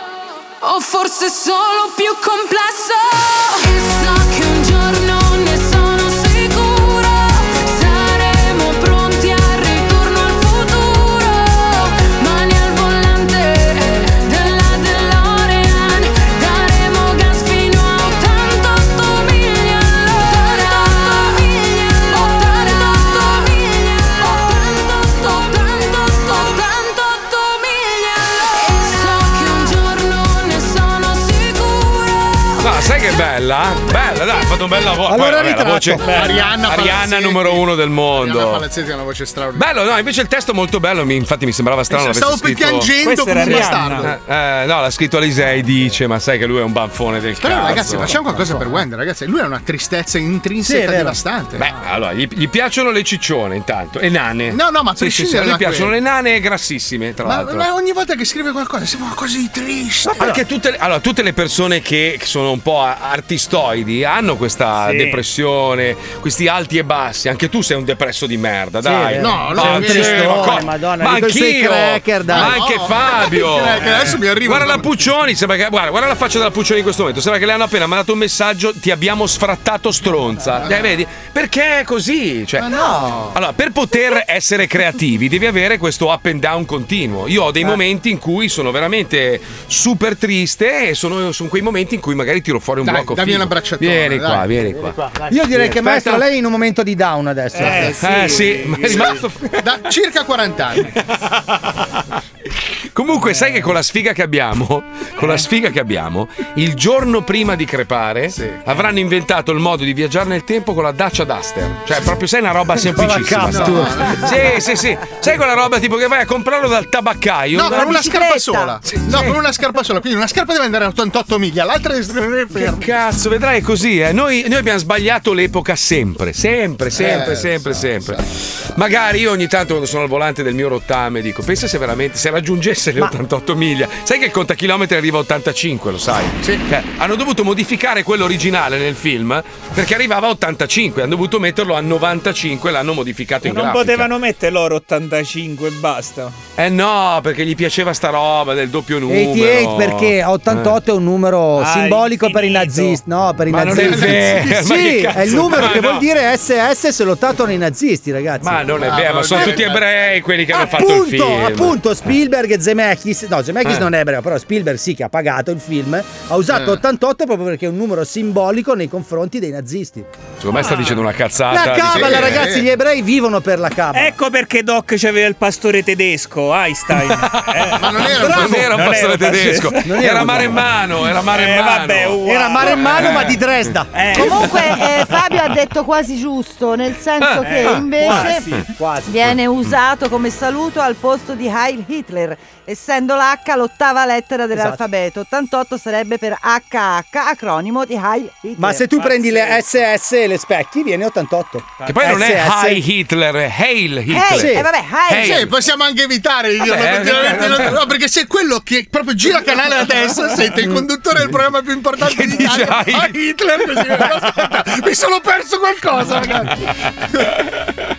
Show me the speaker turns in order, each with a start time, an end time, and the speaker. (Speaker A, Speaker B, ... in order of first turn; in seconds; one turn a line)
Speaker A: 0.6-32.7
Speaker B: 32.6-38.7
Speaker C: 35.1-36.5
Speaker D: 36.1-39.6
Speaker B: 39.5-42.9
Speaker D: 41.9-44.1
Speaker E: 43.0-44.1
Speaker B: 43.4-48.3
Speaker D: 47.4-51.7
Speaker C: 50.6-51.2
Speaker B: 51.5-57.7
Speaker D: 54.5-56.0
Speaker D: 57.2-60.3
Speaker C: 60.1-60.4
Speaker B: 60.2-95.0
Speaker E: 64.8-65.2
Speaker C: 68.8-72.6
Speaker D: 69.1-70.6
Speaker D: 72.3-74.9
Speaker D: 82.6-83.3
Speaker D: 92.8-94.7
Speaker C: 95.3-98.1
Speaker B: 95.5-96.2
Speaker E: 97.5-99.1
Speaker B: 98.0-99.7
Speaker D: 98.8-100.9
Speaker B: 102.9-118.0
Speaker D: 108.3-108.6
Speaker C: 112.8-114.1
Speaker D: 113.4-114.3
Speaker D: 117.5-122.8
Speaker F: 117.6-119.3
Speaker B: 122.5-128.2
Speaker D: 127.0-128.2
Speaker B: 128.7-144.1
Speaker E: 143.4-146.4
Speaker B: 146.6-150.8
Speaker C: 149.1-159.7
Speaker E: 151.6-153.0
Speaker B: 153.5-156.1
Speaker D: 153.7-154.3
Speaker B: 158.4-161.8
Speaker D: 158.8-159.8
Speaker C: 160.5-170.1
Speaker B: 163.6-163.9
Speaker D: 166.5-166.8
Speaker B: 170.4-172.5
Speaker C: 171.5-174.1
Speaker D: 171.8-172.7
Speaker E: 173.9-179.8
Speaker B: 177.2-177.6
Speaker D: 177.8-178.7
Speaker C: 178.2-178.5
Speaker B: 178.2-183.4
Speaker C: 179.8-180.6
Speaker E: 181.3-183.2
Speaker C: 182.2-184.5
Speaker E: 183.9-184.7
Speaker F: 184.1-188.5
Speaker B: 187.2-187.8
Speaker E: 187.4-188.6
Speaker C: 188.1-189.3
Speaker F: 189.1-199.6
Speaker C: 194.5-194.8
Speaker C: 198.6-202.8
Speaker B: 201.9-205.6
Speaker F: 204.1-205.4
Speaker C: 204.3-204.6
Speaker D: 205.2-216.5
Speaker B: 206.6-207.8
Speaker B: 212.0-213.1